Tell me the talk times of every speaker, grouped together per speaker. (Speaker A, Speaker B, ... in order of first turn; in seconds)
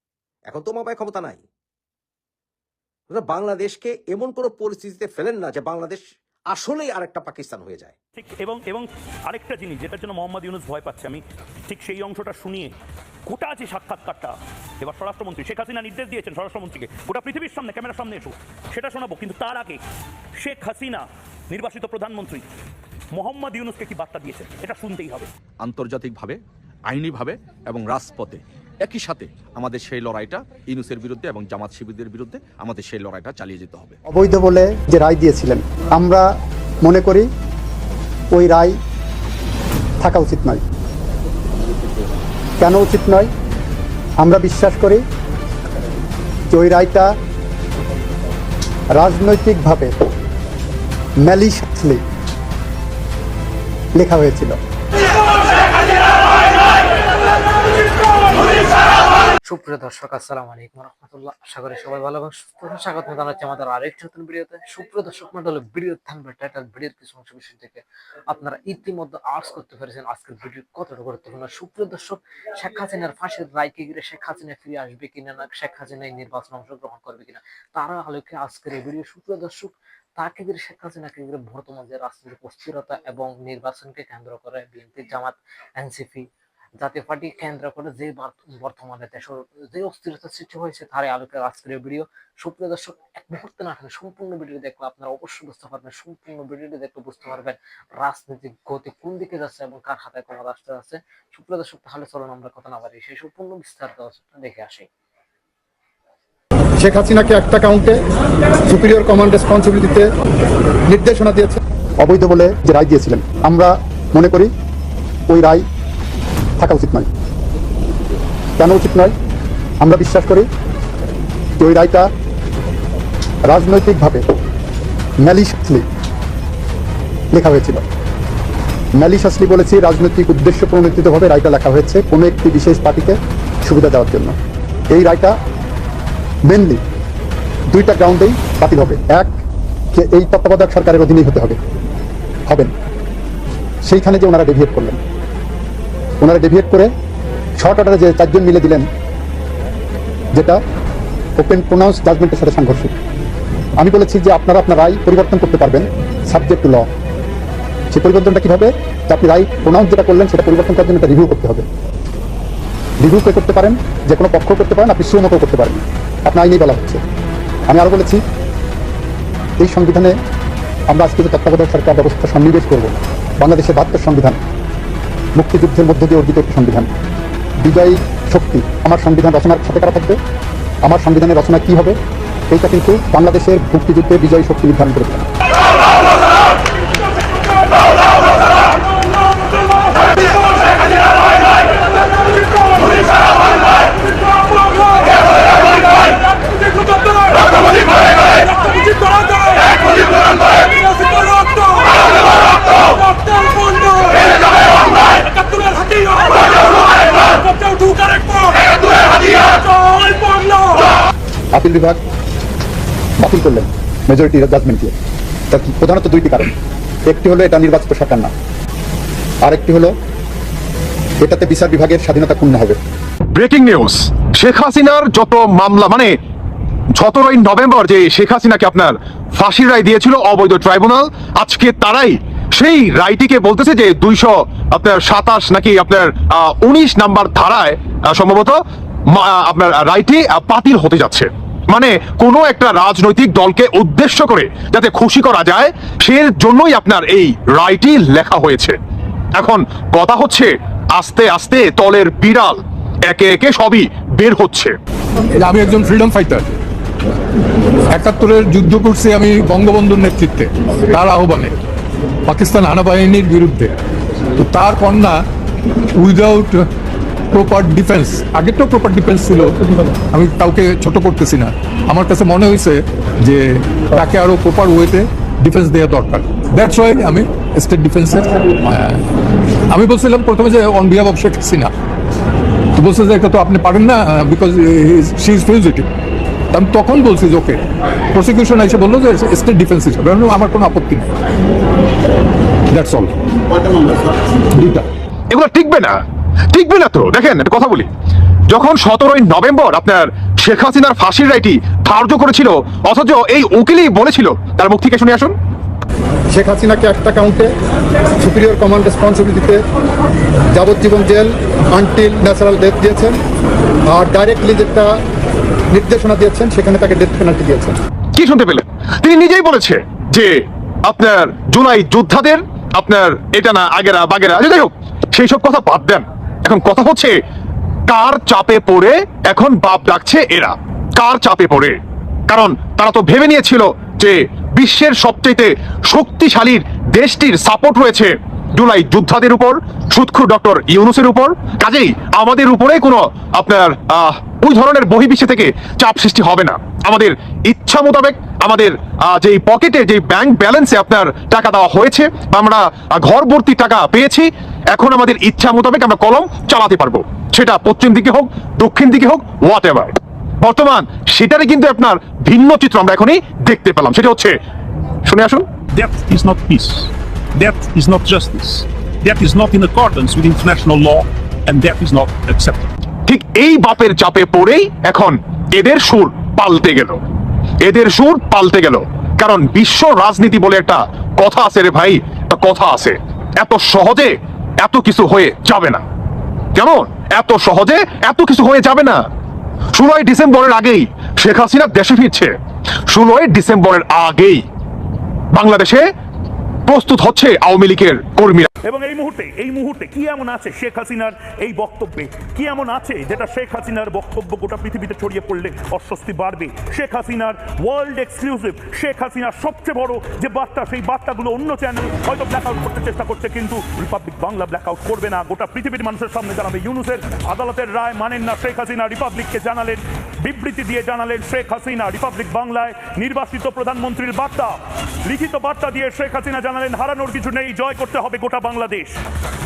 Speaker A: 0.5-1.4, 3.1-8.0
Speaker B: 8.2-12.8, 13.3-19.8, 20.4-22.5, 23.1-25.3, 207.5-207.9, 398.6-429.0
Speaker C: 25.6-34.0
Speaker D: 34.1-36.3, 36.8-37.3, 38.3-38.7, 40.0-40.6, 42.6-43.3, 44.2-45.0, 46.5-47.1, 49.0-50.0, 51.2-52.0, 54.0-54.6, 106.8-108.0, 108.7-110.1, 110.9-114.5, 115.3-115.7, 116.6-117.1, 118.6-119.1, 119.8-120.5, 121.6-122.1, 123.5-124.3, 125.2-125.9, 127.3-127.8, 129.0-134.4, 134.9-135.4, 136.5-136.8, 137.7-139.3, 139.9-141.6, 143.9-145.0, 146.2-146.9, 147.6-148.9, 151.4-152.9, 153.8-156.9, 157.9-161.7, 163.0-167.0, 167.7-168.2, 169.6-170.2, 170.9-174.4, 175.4-176.9, 177.6-180.2, 180.8-182.0, 182.5-185.3, 211.6-212.0, 213.2-214.9, 215.5-216.5, 217.1-218.3, 219.4-219.9, 221.2-222.8, 306.3-307.5, 308.2-309.6, 310.6-313.2, 313.9-314.9, 315.7-317.8
Speaker E: 59.5-86.3, 86.8-104.9
Speaker F: 223.3-226.1, 227.0-248.8, 249.4-254.8, 295.3-296.0, 296.5-297.9, 298.5-305.4, 318.1-327.2, 327.9-331.8, 332.3-364.4, 365.1-365.4, 373.1-377.0, 377.6-385.8, 386.6-389.0, 389.8-392.3, 392.9-394.4, 395.3-395.8, 396.7-398.5
Speaker G: 255.3-256.6, 257.9-261.6, 262.3-263.7, 264.4-265.2, 265.9-266.6, 267.3-269.6, 270.1-279.0, 279.7-281.7, 282.8-285.9, 286.5-287.6, 288.1-291.1, 292.7-293.1, 294.6-294.9
Speaker H: 365.7-372.7